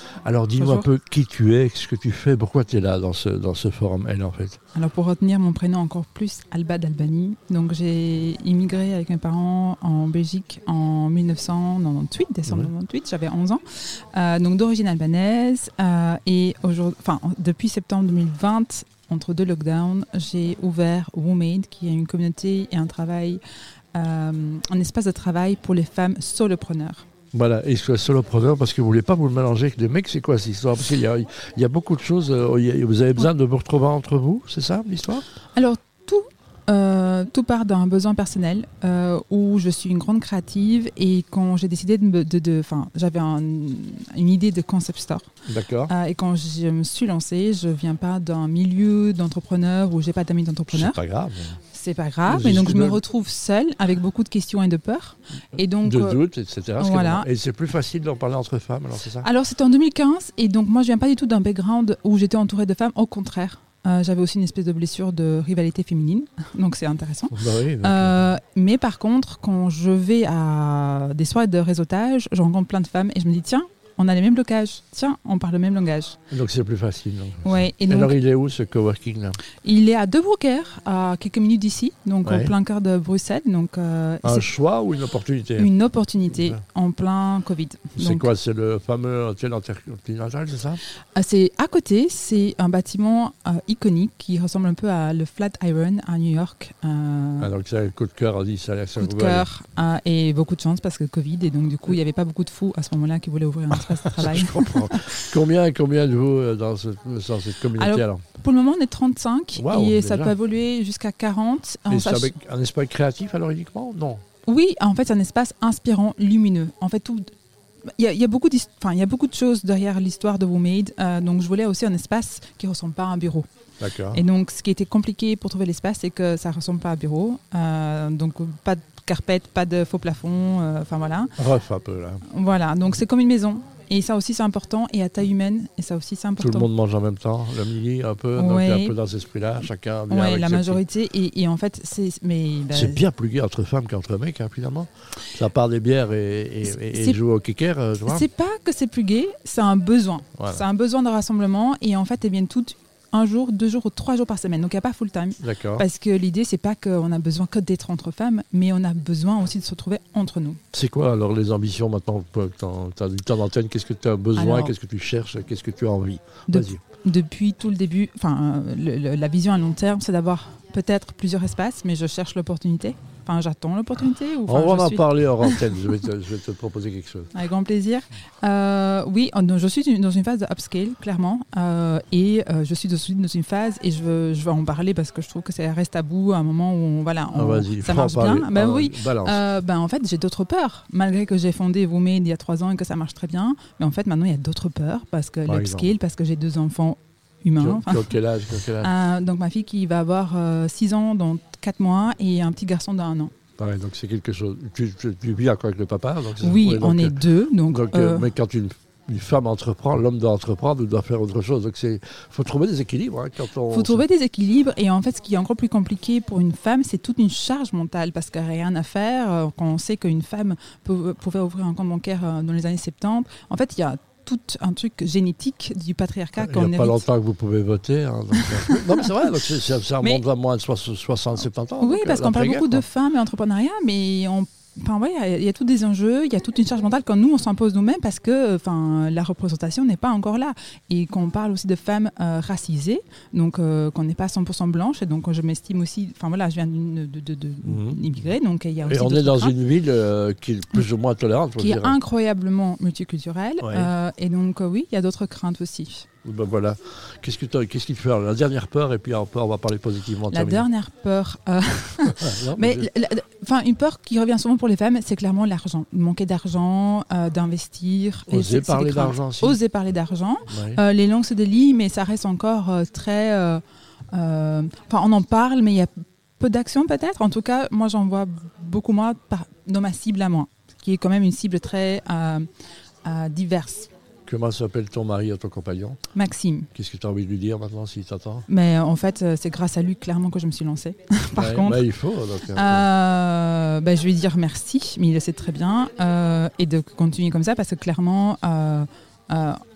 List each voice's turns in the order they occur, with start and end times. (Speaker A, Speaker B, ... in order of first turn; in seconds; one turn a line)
Speaker A: 0.2-4.6
Speaker B: 0.6-0.9
Speaker B: 4.7-23.4
Speaker B: 23.9-27.1
Speaker A: 27.3-35.2
Speaker B: 35.5-45.3
Speaker A: 45.5-45.9
Speaker B: 45.9-51.0
Speaker A: 50.7-51.6
Speaker B: 51.7-56.2
Speaker A: 52.2-53.0
Speaker A: 55.8-59.3
Speaker B: 56.8-57.3
Speaker B: 59.2-76.2
Speaker A: 67.3-68.1
Speaker A: 76.3-79.4
Speaker B: 77.4-78.2
Speaker B: 79.6-84.5
Speaker A: 82.2-82.5
Speaker A: 84.2-85.7
Speaker B: 85.6-88.3
Speaker A: 88.0-90.8
Speaker B: 91.1-97.5
Speaker A: 97.4-99.5
Speaker B: 99.0-105.2
Speaker A: 104.0-108.2
Speaker B: 107.7-112.3
Speaker A: 109.5-110.3
Speaker A: 111.9-114.2
Speaker B: 114.5-117.3
Speaker B: 118.0-123.5
Speaker A: 123.8-124.2
Speaker B: 124.1-131.4
Speaker A: 131.4-132.2
Speaker B: 132.2-136.7
Speaker A: 136.4-140.8
Speaker B: 138.3-138.9
Speaker B: 140.1-143.0
Speaker A: 142.7-148.2
Speaker B: 146.9-147.2
Speaker B: 148.0-160.6
Speaker A: 150.4-150.6
Speaker A: 155.4-155.8
Speaker A: 160.7-166.8
Speaker B: 164.3-164.7
Speaker B: 166.5-175.7
Speaker A: 174.5-177.3
Speaker B: 177.3-198.2
Speaker A: 187.3-189.4
Speaker A: 195.4-195.9
Speaker A: 197.6-198.9
Speaker B: 198.8-203.3
Speaker A: 203.6-214.0
Speaker B: 206.4-208.3
Speaker B: 213.7-227.0
Speaker A: 226.4-232.8
Speaker B: 228.3-229.2
Speaker B: 231.8-249.5
Speaker A: 247.6-248.0
Speaker A: 248.9-251.9
Speaker B: 251.6-256.1
Speaker A: 253.6-253.9
Speaker A: 256.2-260.7
Speaker B: 260.3-282.4
Speaker A: 262.1-262.9
Speaker A: 268.3-269.6
Speaker A: 270.5-270.8
Speaker B: 283.0-283.9
Speaker A: 284.3-286.0
Speaker B: 286.1-286.7
Speaker A: 286.7-288.4
Speaker B: 288.5-291.9
Speaker A: 291.4-292.9
Speaker B: 292.5-299.6